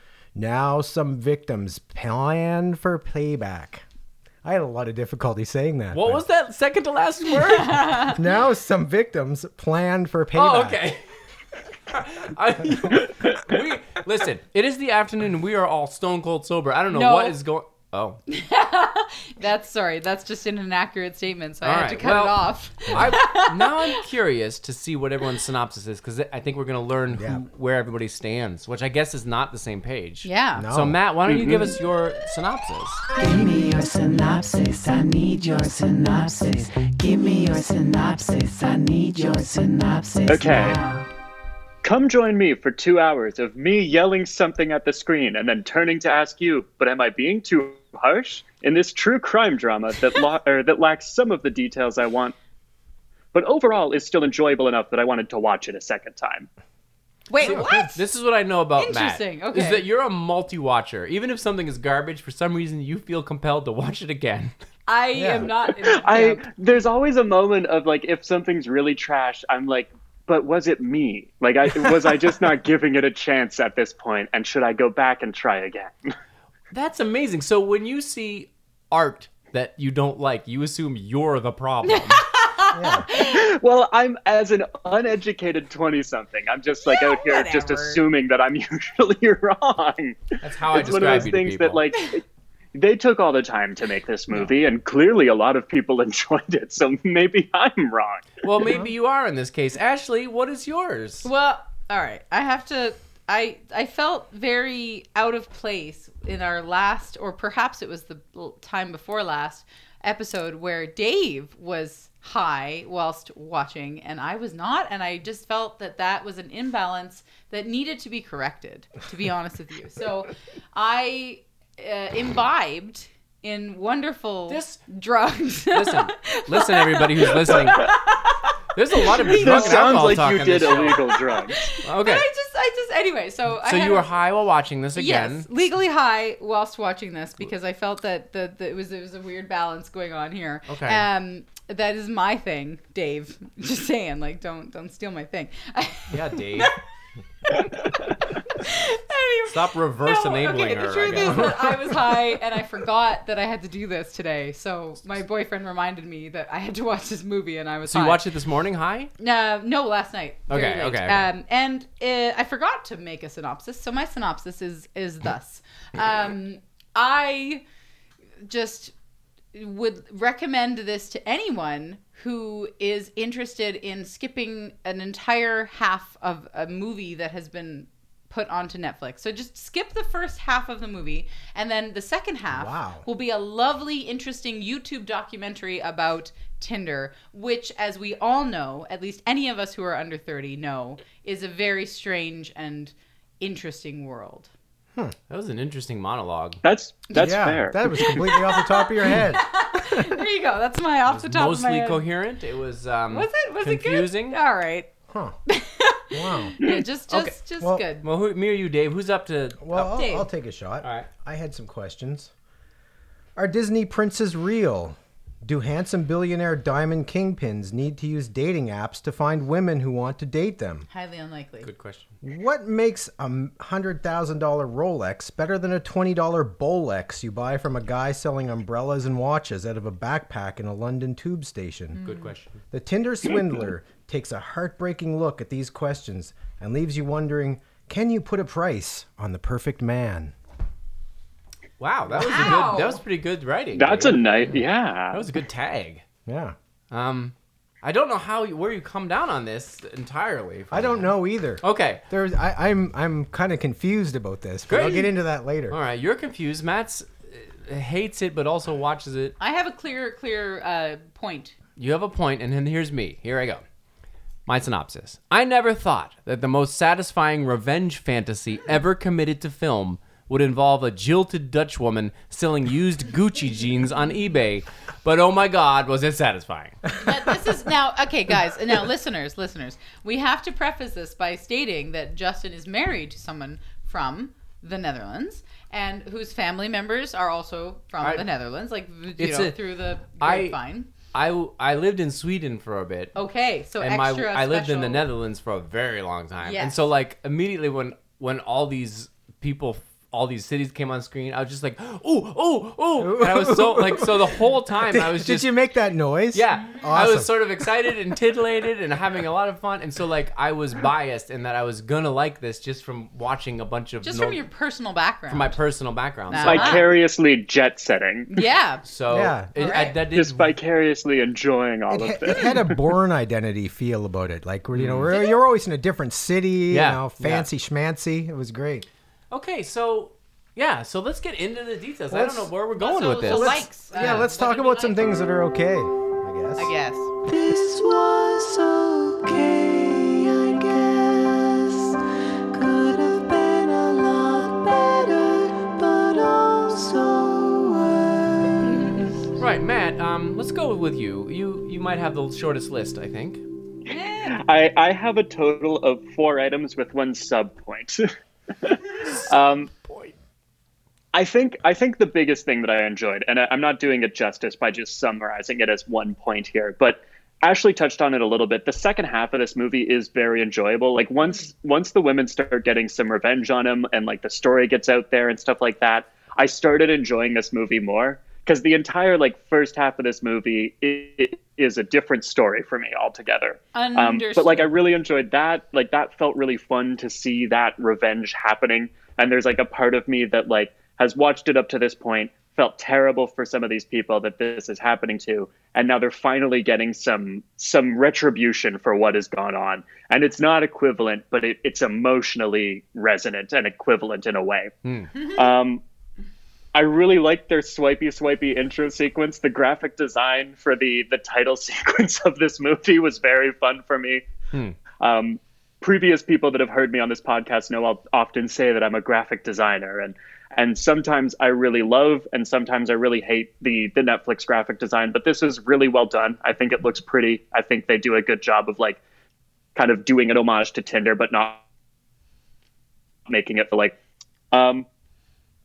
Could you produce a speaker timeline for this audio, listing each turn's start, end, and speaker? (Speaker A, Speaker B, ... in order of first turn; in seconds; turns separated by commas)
Speaker A: 0.3-3.8, Speaker A: 4.4-6.2, Speaker B: 5.9-8.0, Speaker C: 7.5-8.2, Speaker A: 8.1-10.8, Speaker B: 10.3-11.0, Speaker B: 11.9-18.2, Speaker C: 16.9-17.4, Speaker C: 18.3-24.0, Speaker B: 21.6-33.0, Speaker A: 22.9-23.2, Speaker A: 27.1-27.4, Speaker C: 30.2-30.7, Speaker A: 30.6-31.0, Speaker D: 31.3-31.7, Speaker C: 33.2-41.0, Speaker D: 40.3-40.8, Speaker D: 41.8-52.4, Speaker D: 53.3-56.5, Speaker C: 57.3-58.0, Speaker B: 57.4-64.5, Speaker A: 57.4-57.9, Speaker C: 58.8-59.9, Speaker C: 64.9-66.5, Speaker A: 65.2-65.5, Speaker D: 65.9-75.9, Speaker B: 76.7-82.2, Speaker C: 81.8-83.5, Speaker A: 82.7-83.1, Speaker D: 83.1-92.2, Speaker C: 86.8-88.0, Speaker B: 90.4-91.8, Speaker D: 92.7-98.4, Speaker B: 98.4-101.3, Speaker A: 98.6-98.9, Speaker C: 101.2-130.1, Speaker B: 124.5-124.8, Speaker B: 125.7-128.0, Speaker B: 128.8-131.1, Speaker D: 129.2-131.7, Speaker C: 131.1-134.1, Speaker B: 131.8-132.3, Speaker B: 133.6-135.5, Speaker C: 134.9-146.8, Speaker B: 140.7-141.1, Speaker B: 146.1-146.7, Speaker C: 148.5-158.2, Speaker B: 149.5-151.7, Speaker B: 157.9-159.1, Speaker C: 159.2-167.6, Speaker B: 160.5-161.3, Speaker C: 168.4-168.9, Speaker C: 169.5-194.5, Speaker A: 182.5-183.0, Speaker B: 195.3-196.6, Speaker D: 196.6-197.9, Speaker A: 197.2-200.2, Speaker C: 197.8-202.1, Speaker B: 201.1-204.4, Speaker C: 203.1-204.9, Speaker A: 205.1-205.4, Speaker C: 205.5-208.1, Speaker A: 206.1-206.5, Speaker B: 207.1-207.3, Speaker A: 207.6-207.9, Speaker B: 208.0-209.6, Speaker A: 209.6-212.3, Speaker C: 209.7-210.3, Speaker B: 210.8-211.1, Speaker A: 213.4-220.9, Speaker C: 220.9-221.7, Speaker B: 221.6-222.1, Speaker A: 222.2-232.0, Speaker C: 231.9-232.3, Speaker B: 232.0-232.6, Speaker A: 232.7-240.3, Speaker B: 241.8-246.1, Speaker C: 242.2-243.0, Speaker D: 243.8-245.2, Speaker A: 246.3-246.6, Speaker B: 246.9-251.1, Speaker A: 250.7-255.8, Speaker B: 251.6-252.0, Speaker B: 254.7-255.1, Speaker B: 255.7-259.4, Speaker C: 259.4-261.6, Speaker B: 261.8-263.6, Speaker B: 264.5-277.1, Speaker C: 277.0-290.9, Speaker B: 288.0-288.3, Speaker B: 289.2-290.6, Speaker B: 291.1-293.2, Speaker C: 293.1-295.1, Speaker B: 293.8-305.5, Speaker C: 296.4-296.9, Speaker A: 303.0-307.7, Speaker B: 306.3-314.4, Speaker C: 314.0-315.6, Speaker B: 315.3-316.9, Speaker C: 316.3-316.9, Speaker D: 316.4-318.3, Speaker C: 318.3-318.9, Speaker B: 318.9-320.6, Speaker A: 319.1-319.5, Speaker C: 319.6-320.0, Speaker D: 320.1-322.8, Speaker A: 321.9-328.9, Speaker B: 324.7-325.1, Speaker C: 325.1-325.4, Speaker B: 326.7-327.5, Speaker B: 329.3-334.3, Speaker A: 332.1-332.5, Speaker C: 332.8-335.0, Speaker A: 333.3-336.7, Speaker C: 336.6-337.1, Speaker E: 337.2-342.0, Speaker E: 342.5-348.8, Speaker C: 348.6-349.1, Speaker B: 349.4-353.4, Speaker C: 353.9-354.4, Speaker D: 354.3-358.1, Speaker D: 358.6-359.7, Speaker B: 359.8-360.1, Speaker D: 361.1-404.7, Speaker C: 383.7-384.7, Speaker B: 404.9-405.1, Speaker C: 405.1-405.5, Speaker D: 405.3-405.8, Speaker D: 406.7-414.2, Speaker B: 414.5-414.8, Speaker D: 415.0-429.0, Speaker D: 429.8-431.6, Speaker D: 433.3-433.9, Speaker D: 434.5-434.9